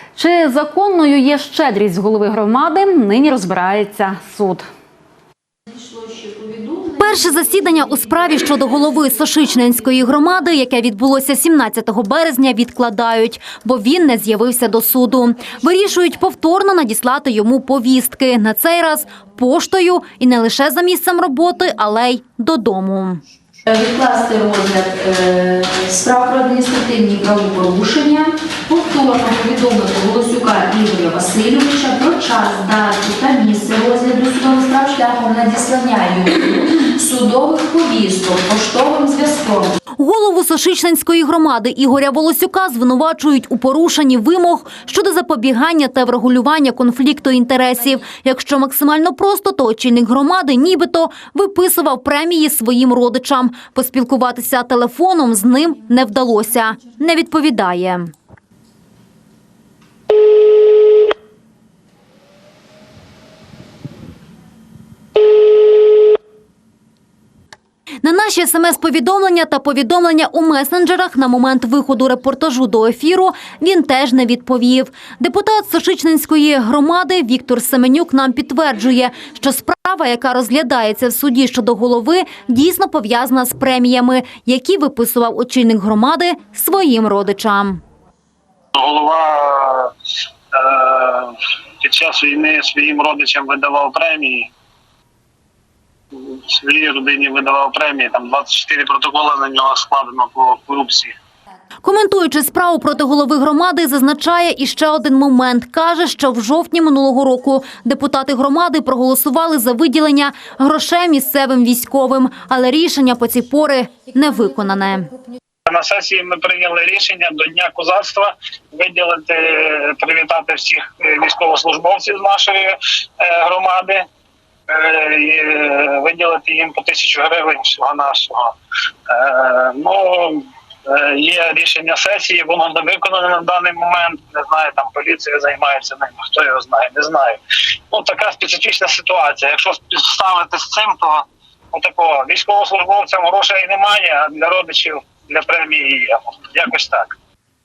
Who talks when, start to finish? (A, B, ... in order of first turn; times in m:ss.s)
0:00.1-0:04.6 A
0:05.7-0:07.0 B
0:07.0-0:23.2 C
0:23.7-0:39.7 B
0:40.0-0:58.1 C
1:08.0-1:27.8 C
1:28.7-1:29.9 D
1:30.5-1:34.5 D
1:36.1-1:41.1 D
1:41.8-1:55.1 C
1:55.7-2:04.1 D
2:04.8-2:08.5 D
2:09.1-2:17.4 D
2:17.9-2:27.1 D